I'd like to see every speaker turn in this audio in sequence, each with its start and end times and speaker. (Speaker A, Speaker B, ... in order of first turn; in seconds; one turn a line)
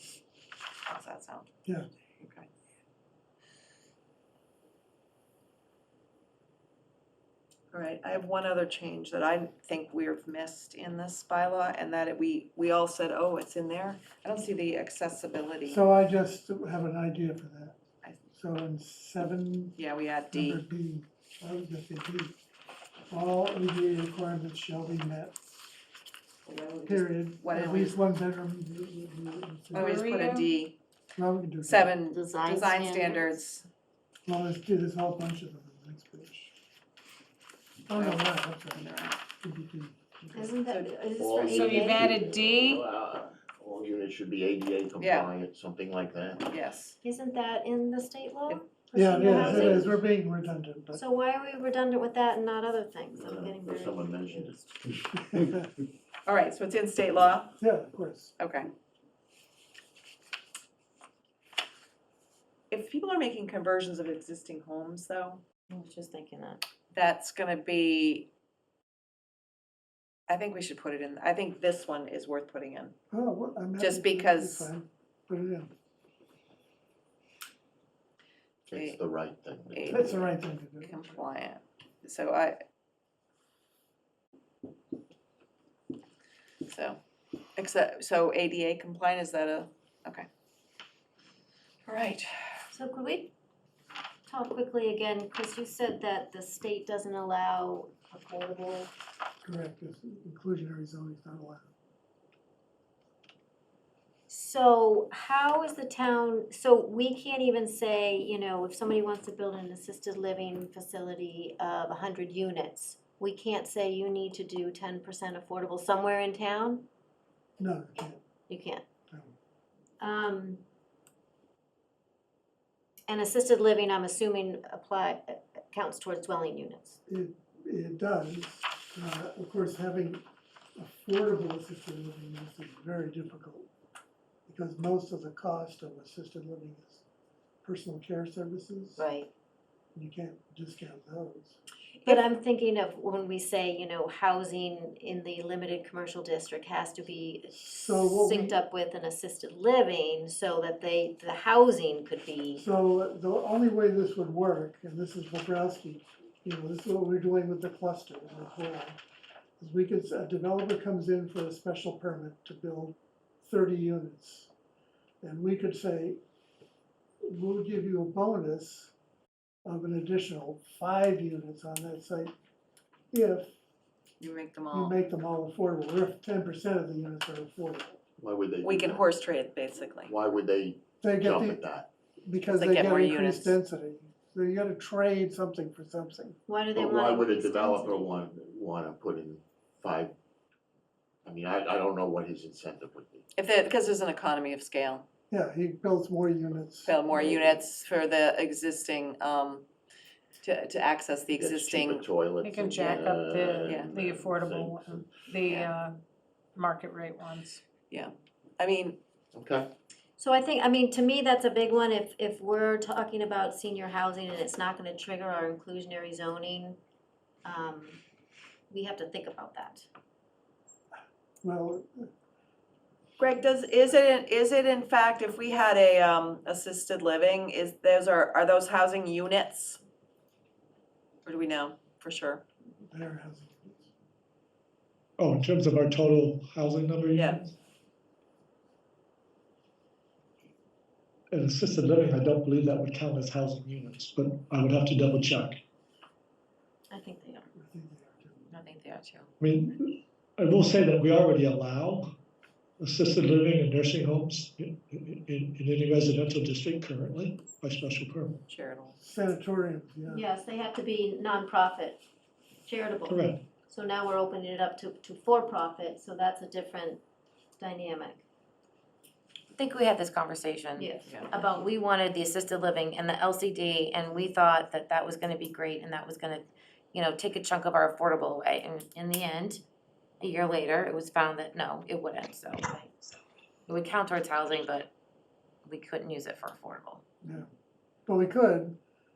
Speaker A: 0.9-1.5
Speaker A: 2.2-2.5
Speaker A: 7.7-15.8
Speaker B: 15.7-17.8
Speaker B: 18.3-19.8
Speaker A: 19.8-20.6
Speaker B: 20.3-22.4
Speaker B: 23.1-25.4
Speaker A: 26.4-28.0
Speaker B: 26.9-30.1
Speaker A: 29.7-30.8
Speaker C: 29.7-30.5
Speaker B: 31.1-31.9
Speaker A: 31.6-33.7
Speaker D: 32.1-32.5
Speaker E: 32.4-33.1
Speaker B: 34.2-36.5
Speaker B: 37.9-38.9
Speaker A: 37.9-39.2
Speaker B: 39.4-40.5
Speaker D: 40.3-42.1
Speaker A: 40.6-40.9
Speaker F: 41.2-46.5
Speaker E: 41.2-42.0
Speaker C: 41.4-42.8
Speaker A: 45.0-45.3
Speaker A: 46.5-47.0
Speaker D: 47.0-49.9
Speaker B: 48.9-51.0
Speaker D: 50.9-54.2
Speaker F: 53.1-54.7
Speaker E: 54.0-54.5
Speaker B: 55.1-55.6
Speaker A: 56.2-57.6
Speaker B: 57.6-58.4
Speaker A: 58.4-58.7
Speaker A: 62.7-65.4
Speaker D: 65.7-66.6
Speaker A: 66.9-68.3
Speaker A: 70.3-72.9
Speaker B: 73.1-75.7
Speaker A: 73.8-74.7
Speaker F: 78.7-80.2
Speaker A: 78.7-79.0
Speaker A: 79.7-80.2
Speaker B: 79.9-81.2
Speaker A: 80.8-82.6
Speaker A: 86.7-87.0
Speaker A: 87.5-90.3
Speaker A: 91.8-92.3
Speaker D: 92.7-93.3
Speaker D: 94.3-98.9
Speaker B: 99.4-101.7
Speaker D: 104.3-116.8
Speaker B: 117.6-118.2
Speaker D: 118.5-118.8
Speaker D: 120.0-120.6
Speaker D: 123.1-127.0
Speaker B: 127.1-130.2
Speaker B: 130.8-133.7
Speaker B: 134.5-137.0
Speaker B: 137.6-139.0
Speaker D: 139.0-139.3
Speaker B: 139.9-141.6
Speaker D: 142.0-152.6
Speaker B: 147.5-148.6
Speaker B: 152.6-159.0
Speaker B: 159.6-164.5
Speaker B: 165.2-166.2
Speaker B: 167.2-168.9
Speaker B: 169.6-172.3
Speaker B: 173.1-173.6
Speaker A: 174.2-174.9
Speaker B: 174.7-178.0
Speaker F: 178.2-179.0
Speaker A: 178.6-180.1
Speaker F: 180.0-181.8
Speaker B: 181.0-186.4
Speaker A: 182.5-183.6
Speaker D: 186.5-187.9
Speaker F: 186.7-190.1
Speaker F: 191.2-193.2
Speaker A: 193.3-195.1
Speaker B: 195.3-196.9
Speaker A: 196.8-199.6
Speaker F: 197.1-197.6
Speaker A: 200.4-202.0
Speaker F: 201.3-205.1
Speaker C: 202.4-206.0
Speaker A: 203.6-203.9
Speaker A: 205.4-205.7
Speaker C: 206.6-207.6
Speaker A: 207.9-209.0
Speaker F: 209.3-209.7
Speaker D: 210.2-216.8
Speaker D: 217.4-218.0
Speaker D: 218.7-219.9
Speaker B: 221.4-222.1
Speaker A: 223.2-229.8
Speaker A: 231.2-232.4
Speaker B: 232.9-233.9
Speaker G: 235.2-237.5
Speaker A: 237.1-237.4
Speaker G: 241.3-245.6
Speaker D: 246.9-247.5
Speaker B: 247.6-248.5
Speaker E: 248.5-249.3
Speaker G: 249.4-252.1
Speaker G: 252.8-258.4
Speaker A: 258.5-259.0
Speaker B: 259.0-260.2
Speaker D: 260.1-262.0
Speaker D: 262.6-267.0
Speaker G: 263.1-263.4
Speaker D: 267.6-268.2
Speaker E: 269.5-270.9
Speaker D: 270.8-271.8
Speaker E: 271.7-276.4
Speaker E: 276.9-279.5
Speaker D: 279.2-279.6
Speaker E: 280.3-283.1
Speaker E: 283.7-284.9
Speaker E: 285.6-287.0
Speaker B: 287.2-287.5
Speaker B: 288.1-288.8